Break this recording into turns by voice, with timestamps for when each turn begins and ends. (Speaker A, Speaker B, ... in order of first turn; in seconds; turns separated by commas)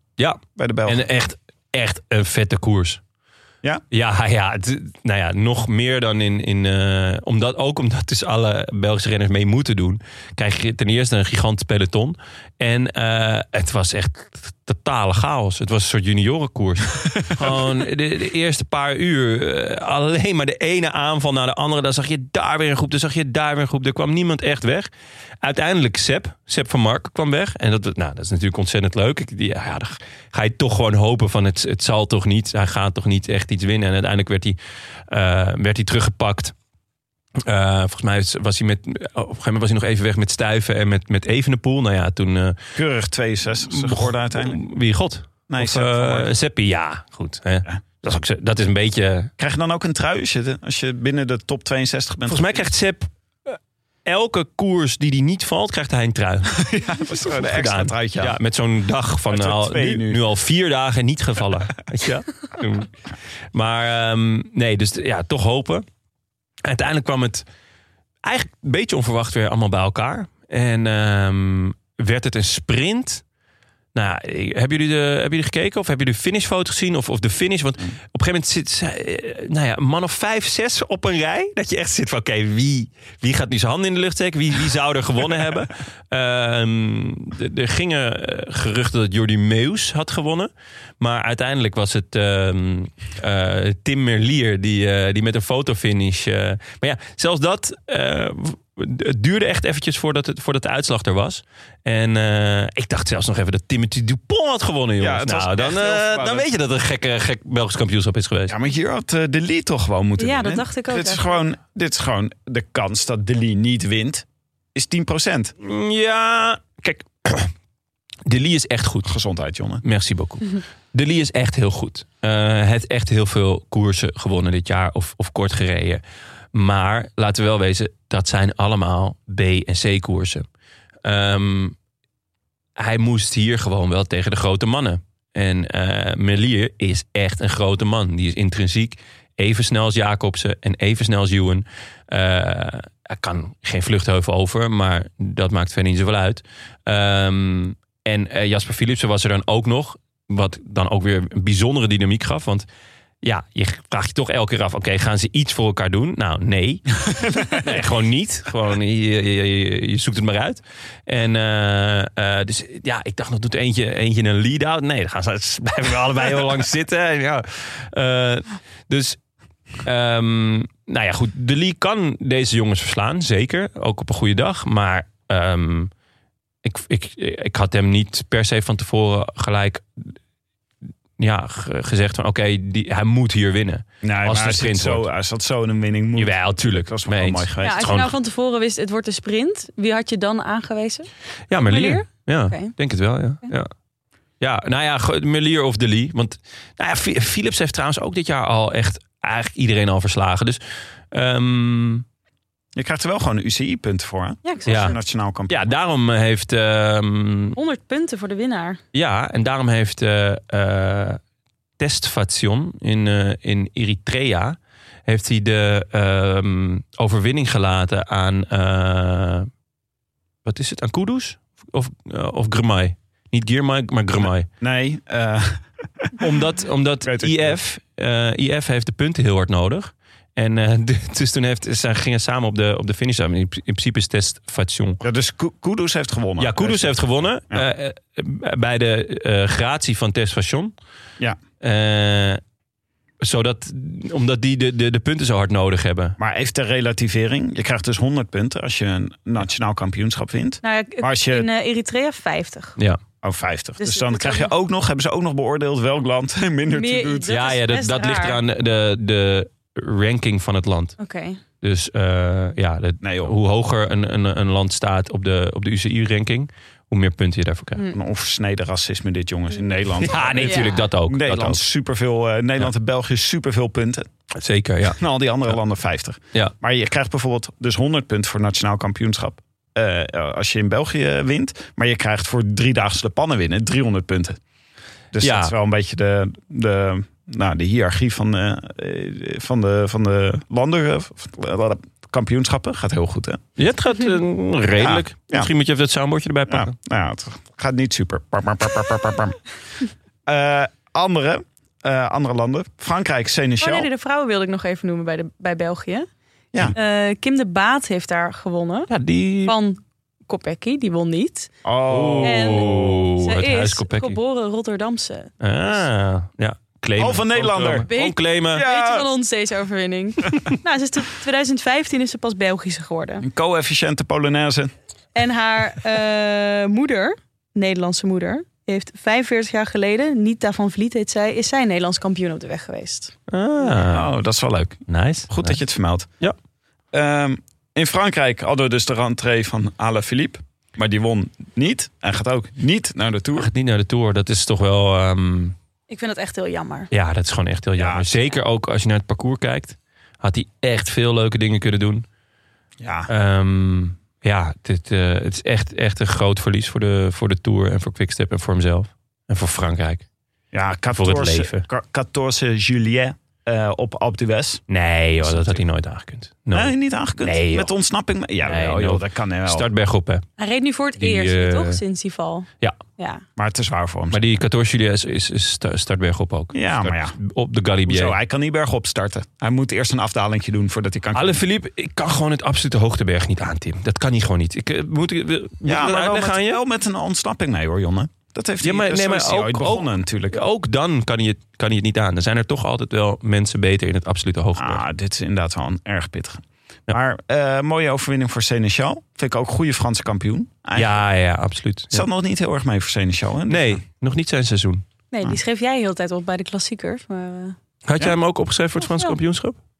Speaker A: 0.2-3.0, Speaker B: 0.5-1.0, Speaker A: 3.9-24.9, Speaker A: 25.4-34.6, Speaker A: 35.1-36.5, Speaker A: 37.4-42.6, Speaker B: 42.7-44.6, Speaker A: 43.6-49.3, Speaker B: 45.5-46.3, Speaker B: 49.4-52.6, Speaker A: 52.3-56.6, Speaker B: 56.5-58.4, Speaker A: 57.2-62.9, Speaker B: 59.3-60.2, Speaker A: 63.5-65.8, Speaker A: 66.6-67.4, Speaker A: 68.2-73.2, Speaker A: 73.9-108.5, Speaker B: 105.0-106.5, Speaker B: 108.5-115.5, Speaker C: 110.2-111.3, Speaker A: 115.6-117.5, Speaker A: 118.2-119.1, Speaker B: 119.0-119.8, Speaker A: 119.8-126.0, Speaker A: 126.5-130.4, Speaker A: 131.0-131.7, Speaker A: 132.8-152.7, Speaker A: 153.2-169.2, Speaker B: 157.2-157.7, Speaker A: 169.8-175.9, Speaker A: 176.6-180.2, Speaker A: 181.2-185.1, Speaker B: 184.0-187.9, Speaker A: 186.2-188.1, Speaker C: 187.6-192.7, Speaker A: 191.5-193.7, Speaker A: 194.4-200.6, Speaker A: 201.1-202.0, Speaker B: 202.7-205.7, Speaker C: 204.4-205.0, Speaker A: 204.7-204.9, Speaker A: 205.5-207.6, Speaker C: 207.6-208.8, Speaker A: 208.9-211.2, Speaker A: 211.8-219.5, Speaker A: 220.4-224.5, Speaker B: 224.6-226.2, Speaker A: 226.2-235.0, Speaker B: 227.0-227.6, Speaker B: 235.0-237.7, Speaker A: 236.4-240.7, Speaker A: 241.6-242.4, Speaker A: 243.2-246.2, Speaker B: 246.2-251.5, Speaker C: 250.6-252.8, Speaker B: 253.2-257.4, Speaker C: 253.8-254.5, Speaker C: 256.7-258.4, Speaker A: 257.3-260.9, Speaker C: 261.0-261.4, Speaker A: 261.6-267.8, Speaker B: 263.0-263.3, Speaker B: 267.9-274.1, Speaker A: 270.0-271.6, Speaker C: 270.4-270.8, Speaker A: 274.4-275.0, Speaker B: 274.9-284.4, Speaker B: 285.1-293.4, Speaker A: 285.2-285.5, Speaker A: 293.6-296.7, Speaker B: 294.8-295.5, Speaker B: 296.5-299.4, Speaker B: 300.2-303.9, Speaker C: 303.6-306.1, Speaker C: 306.7-308.9, Speaker A: 308.9-309.5, Speaker C: 309.4-311.5, Speaker B: 311.6-313.0, Speaker A: 311.9-314.2, Speaker C: 312.2-315.3, Speaker A: 315.4-318.6, Speaker B: 317.0-317.9, Speaker C: 317.9-323.2, Speaker B: 318.5-319.1, Speaker B: 323.2-324.7, Speaker C: 325.1-333.1, Speaker A: 333.3-334.1, Speaker B: 333.7-336.1, Speaker A: 334.9-335.6, Speaker B: 336.9-343.5, Speaker A: 343.4-345.6, Speaker C: 345.9-346.9, Speaker A: 346.9-352.1, Speaker B: 347.8-348.1, Speaker B: 352.8-353.1, Speaker A: 353.1-360.0, Speaker B: 360.5-364.6, Speaker A: 360.9-361.6, Speaker A: 364.7-367.7, Speaker B: 365.2-365.6, Speaker B: 366.5-369.7, Speaker A: 368.4-370.2, Speaker C: 370.4-373.2, Speaker A: 371.0-371.8, Speaker B: 373.4-374.2, Speaker A: 374.1-378.1, Speaker B: 376.5-377.2, Speaker B: 377.9-381.4, Speaker A: 381.1-386.6, Speaker B: 385.6-390.4, Speaker A: 388.6-394.8, Speaker B: 394.6-400.9, Speaker A: 400.7-402.1, Speaker B: 401.9-403.8, Speaker A: 403.5-404.8, Speaker C: 405.1-407.6, Speaker A: 407.9-409.6, Speaker C: 408.9-409.1